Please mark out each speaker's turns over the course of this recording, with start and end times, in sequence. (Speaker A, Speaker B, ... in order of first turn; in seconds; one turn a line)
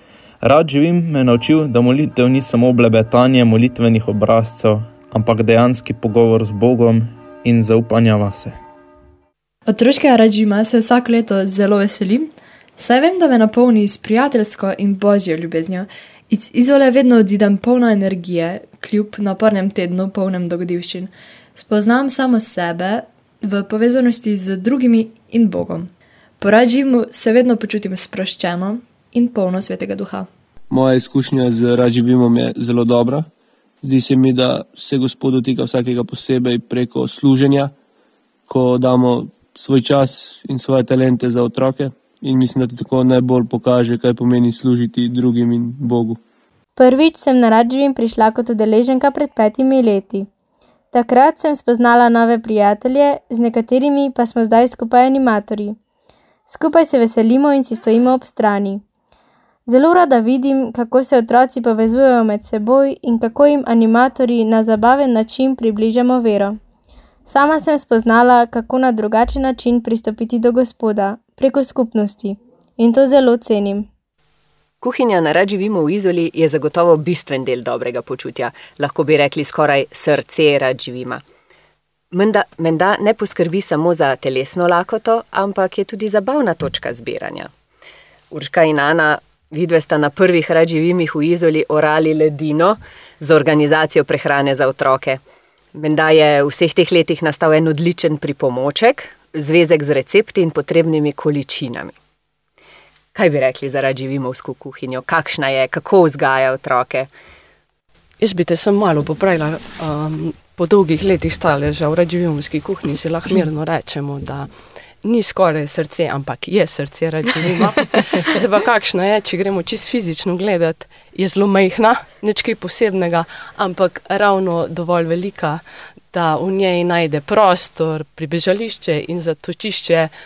Speaker A: 0.4-8.6
Speaker B: 9.7-30.3
Speaker C: 30.7-33.3
Speaker C: 33.8-37.7
Speaker C: 38.5-46.2
Speaker D: 46.8-50.3
Speaker D: 50.9-55.8
Speaker D: 56.5-58.8
Speaker D: 59.7-66.6
Speaker D: 67.2-73.9
Speaker E: 74.8-81.2
Speaker E: 82.1-87.5
Speaker E: 88.3-95.2
Speaker E: 95.7-102.0
Speaker E: 103.1-107.1
Speaker F: 108.2-130.1